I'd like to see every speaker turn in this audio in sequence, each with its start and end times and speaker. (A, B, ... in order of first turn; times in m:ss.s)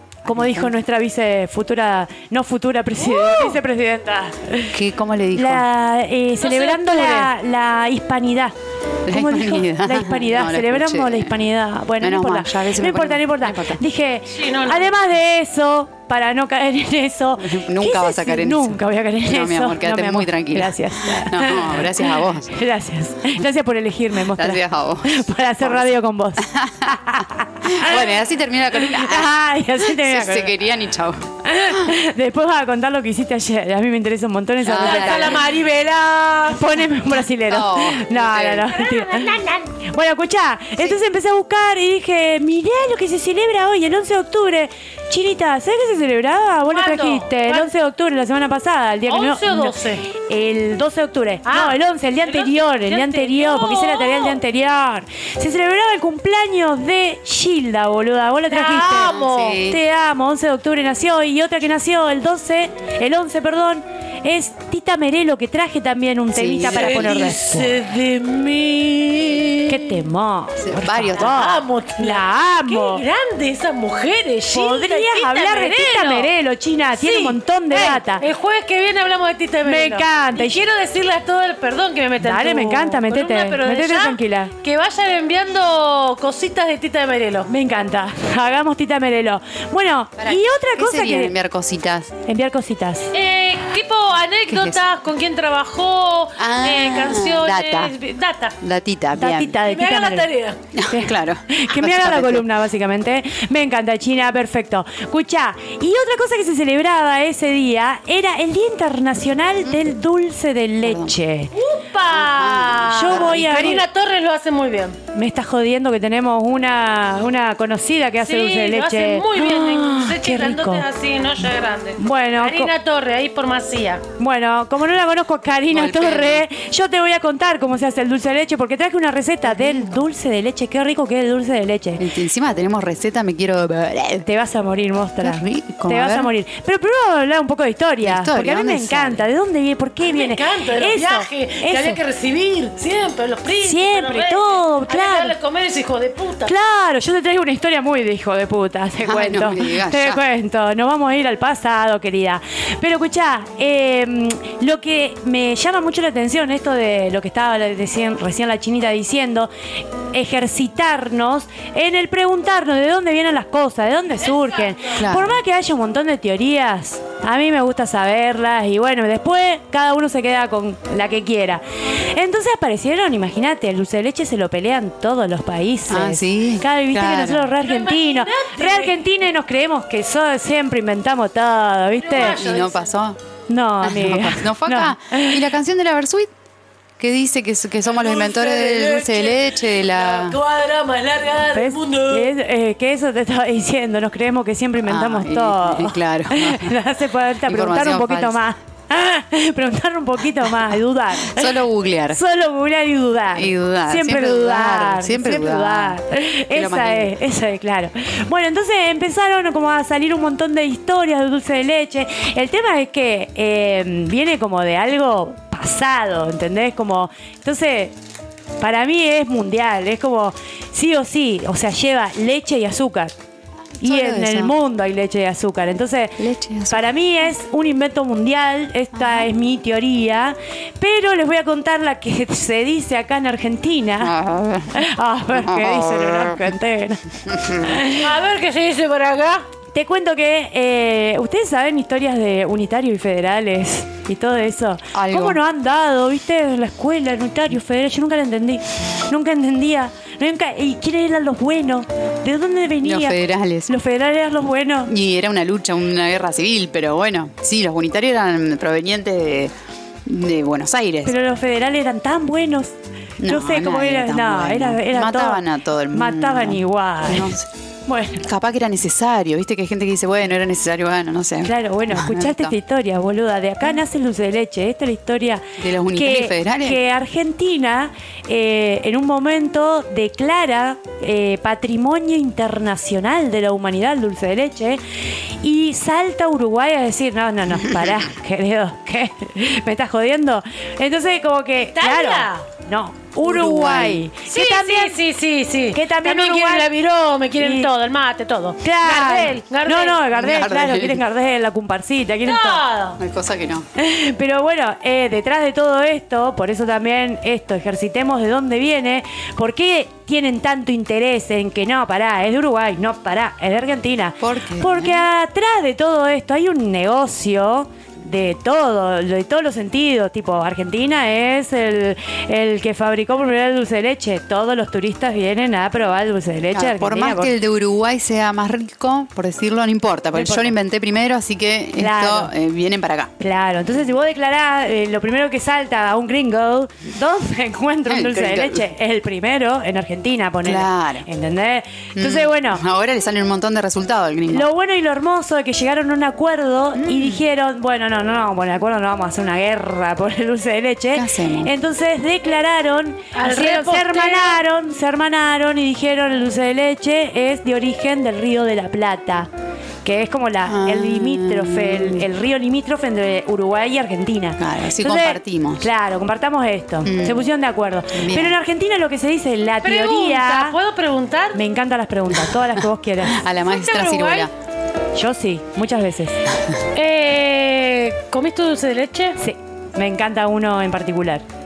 0:00.2-0:00.7 A
0:00.3-0:04.8 B
0:03.2-0:03.5 C
0:04.7-0:05.6 A
0:05.3-0:08.6 B
0:06.4-0:07.3 C
0:09.0-0:11.4 A
0:09.1-0:26.5 B
0:12.0-0:13.8 A
0:14.3-0:14.9 C
0:17.4-0:22.5 A
0:24.3-0:31.9 A
0:27.1-0:28.2 B
0:28.7-0:30.5 B
0:31.4-0:35.4 B
0:34.6-0:35.5 A
0:34.7-0:36.8 C
0:36.5-1:07.8 B
0:37.4-0:38.7 A
0:38.7-0:39.7 C
0:46.7-0:47.7 C
0:49.1-0:50.0 C
0:51.5-0:54.4 C
0:58.5-0:59.6 C
0:59.1-0:59.8 A
1:06.3-1:07.3 A
1:06.6-1:10.0 C
1:09.7-1:13.0 B
1:10.6-1:11.6 A
1:11.2-1:16.3 C
1:14.5-1:18.2 B
1:16.9-1:27.5 C
1:19.6-1:20.6 B
1:22.2-1:24.5 B
1:27.5-1:31.3 B
1:30.2-1:32.1 A
1:32.2-1:33.1 B
1:33.1-1:38.6 C
1:34.5-1:34.8 A
1:36.4-1:37.9 A
1:38.6-1:39.6 A
1:39.2-1:40.3 B
1:39.6-1:40.6 C
1:40.7-1:42.5 A
1:40.9-1:51.5 B
1:49.6-1:49.9 A
1:50.8-1:51.2 A
1:51.5-1:55.0 C
1:52.1-1:53.7 A
1:52.9-1:53.9 B
1:55.1-2:00.8 B
1:58.2-2:04.0 C
2:02.0-2:02.7 B
2:04.2-2:12.1 B
2:05.7-2:06.4 A
2:09.5-2:09.9 A
2:12.0-2:14.3 A
2:14.2-2:22.0 B
2:15.2-2:16.3 A
2:18.0-2:19.3 A
2:20.0-2:26.5 C
2:23.6-2:25.4 B
2:26.5-2:39.5 B
2:29.0-2:30.2 A
2:40.1-3:02.4 B
2:44.2-2:44.9 C
2:45.0-2:45.4 A
2:55.9-2:57.5 A
2:57.6-2:59.0 C
3:02.0-3:02.9 C
3:02.2-3:03.2 A
3:03.5-3:05.5 B
3:03.8-3:06.3 A
3:07.0-3:10.4 A
3:07.8-3:12.3 C
3:11.5-3:37.9 B
3:14.8-3:16.8 A
3:17.5-3:18.4 A
3:21.2-3:22.2 A
3:23.4-3:26.0 A
3:26.5-3:27.1 A
3:38.6-3:43.1 B
3:43.8-3:44.6 A
3:43.8-3:54.1 B
3:46.2-3:46.9 A
3:48.9-3:49.3 A
3:54.0-3:56.6 A
3:54.7-3:57.2 B
3:57.2-3:57.8 A
3:57.7-3:59.5 C
3:59.7-4:14.9 B
4:04.9-4:05.4 A
4:12.8-4:13.8 A
4:14.9-4:19.5 A
4:20.0-4:21.1 A
4:21.0-4:27.3 B
4:23.2-4:27.5 A
4:27.9-4:28.3 B
4:28.2-4:32.6 A
4:31.4-4:44.8 B
4:35.6-4:36.8 A
4:45.4-4:55.0 B
4:51.7-4:52.5 C
4:53.2-4:54.0 A
4:54.3-5:00.1 C
4:55.7-4:56.7 B
4:57.4-4:57.7 B
4:58.6-5:02.6 B
5:00.1-5:01.0 A
5:02.2-5:03.0 C
5:03.0-5:03.7 A
5:03.8-5:27.3 B
5:14.2-5:15.0 A
5:26.5-5:33.1 A
5:30.1-5:30.5 B
5:31.8-5:32.3 B
5:33.2-5:42.6 B
5:37.9-5:38.7 A
5:40.4-5:41.1 A
5:42.0-5:44.5 A
5:44.3-5:59.3 B
5:46.8-5:47.2 A
5:51.0-5:51.5 A
5:53.1-5:54.4 C
5:59.8-6:10.6 B
6:00.4-6:02.1 A
6:04.4-6:05.7 A
6:06.8-6:07.3 A
6:07.9-6:08.4 A
6:09.6-6:11.4 C
6:11.4-6:13.2 B
6:12.6-6:14.3 A
6:13.4-6:14.3 C
6:15.0-6:16.3 B
6:16.7-6:19.2 C
6:19.2-6:21.2 B